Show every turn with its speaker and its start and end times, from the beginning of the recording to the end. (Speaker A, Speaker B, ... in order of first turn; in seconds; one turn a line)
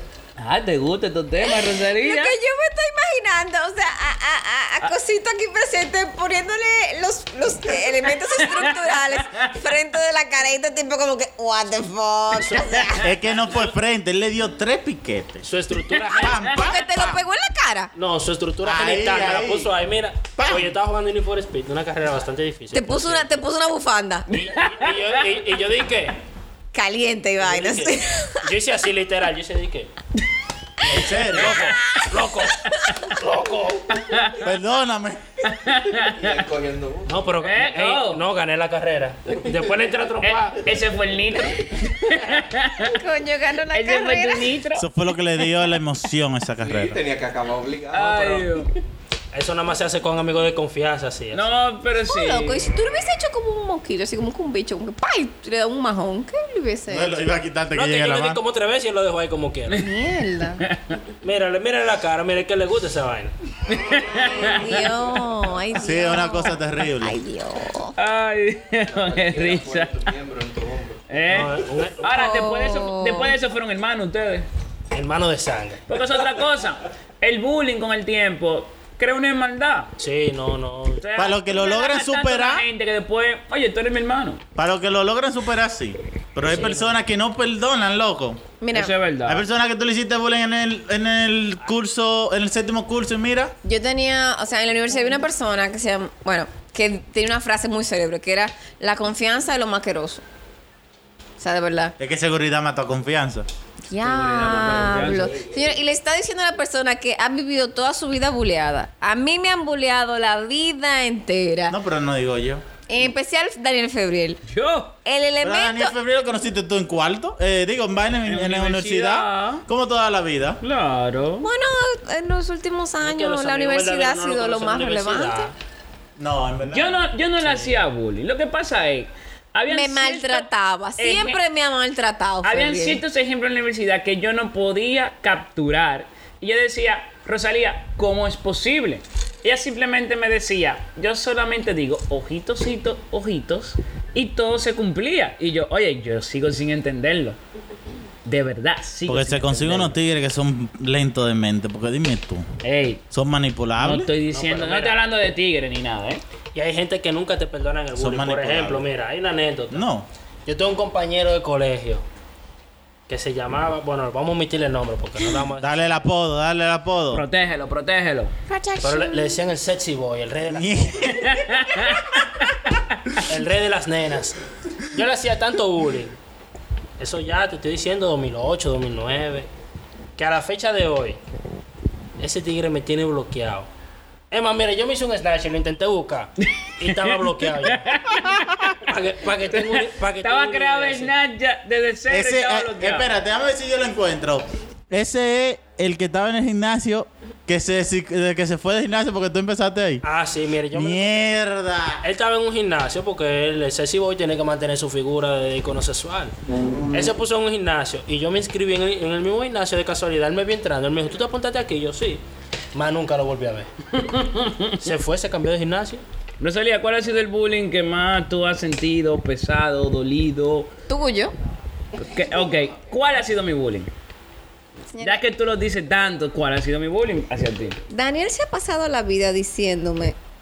Speaker A: 0.4-2.4
Speaker B: 1.4-13.1
Speaker A: 8.6-9.5
Speaker C: 12.3-12.9
Speaker D: 12.9-15.5
Speaker C: 15.4-16.4
Speaker A: 15.9-16.3
Speaker D: 16.1-17.2
Speaker B: 16.5-17.9
Speaker C: 17.9-23.4
Speaker D: 18.6-19.7
Speaker D: 20.4-20.8
Speaker B: 22.7-24.3
Speaker A: 24.3-25.2
Speaker C: 24.3-26.2
Speaker B: 26.7-28.4
Speaker C: 27.4-29.9
Speaker D: 30.8-31.7
Speaker C: 31.0-34.0
Speaker A: 33.9-34.4
Speaker D: 34.4-35.2
Speaker A: 35.4-36.4
Speaker E: 36.0-37.2
Speaker C: 37.1-40.7
Speaker A: 37.4-38.2
Speaker A: 40.2-43.0
Speaker B: 42.8-44.5
Speaker A: 43.7-44.9
Speaker D: 44.8-47.0
Speaker E: 46.6-48.6
Speaker A: 47.9-48.7
Speaker C: 49.3-51.5
Speaker A: 51.3-52.6
Speaker B: 52.1-57.2
Speaker D: 56.9-58.4
Speaker C: 57.7-59.9
Speaker B: 59.7-60.6
Speaker A: 60.6-61.0
Speaker C: 61.2-63.3
Speaker A: 63.7-64.8
Speaker B: 64.2-67.9
Speaker D: 65.8-67.2
Speaker A: 68.0-70.1
Speaker E: 68.9-71.0
Speaker A: 71.1-74.5
Speaker C: 71.3-72.1
Speaker B: 72.0-73.4
Speaker C: 74.9-75.8
Speaker A: 75.9-79.9
Speaker C: 80.0-81.0
Speaker A: 81.0-84.4
Speaker D: 81.2-82.7
Speaker D: 84.6-88.4
Speaker C: 86.4-87.0
Speaker B: 88.6-88.9
Speaker A: 88.7-89.4
Speaker D: 89.3-93.5
Speaker B: 93.6-100.2
Speaker B: 101.4-102.0
Speaker D: 102.0-103.5
Speaker B: 103.9-111.8
Speaker A: 104.0-105.6
Speaker D: 111.7-112.6
Speaker B: 112.9-114.4
Speaker A: 114.5-114.9
Speaker B: 115.0-115.9
Speaker D: 115.4-120.6
Speaker A: 118.3-119.7
Speaker A: 120.6-121.5
Speaker B: 121.4-125.5
Speaker C: 123.0-125.5
Speaker D: 126.2-127.0
Speaker A: 126.7-131.4
Speaker C: 127.4-127.8
Speaker B: 129.7-133.0
Speaker A: 132.4-147.4
Speaker A: 148.2-149.9
Speaker D: 149.1-152.4
Speaker A: 152.6-153.0
Speaker D: 153.1-154.1
Speaker A: 153.8-156.2
Speaker C: 154.3-155.0
Speaker C: 156.6-159.8
Speaker D: 157.9-158.9
Speaker D: 159.7-160.1
Speaker C: 160.5-162.0
Speaker C: 163.1-166.0
Speaker D: 165.6-167.2
Speaker A: 167.1-168.3
Speaker B: 168.5-169.4
Speaker C: 168.8-171.2
Speaker D: 170.5-172.0
Speaker A: 171.1-172.9
Speaker C: 173.3-176.1
Speaker C: 177.0-179.5
Speaker C: 180.2-181.2
Speaker C: 182.2-183.7
Speaker C: 184.3-191.1
Speaker A: 186.7-188.7
Speaker A: 189.5-193.1
Speaker D: 192.1-200.0
Speaker C: 200.0-201.3
Speaker D: 200.7-202.0
Speaker C: 202.0-206.3
Speaker C: 206.9-212.2
Speaker C: 212.7-213.7
Speaker A: 213.9-214.8
Speaker C: 214.8-216.0
Speaker A: 216.4-220.7
Speaker B: 220.9-221.3
Speaker A: 222.0-223.9
Speaker B: 224.9-225.2
Speaker A: 225.0-227.8
Speaker B: 227.9-230.2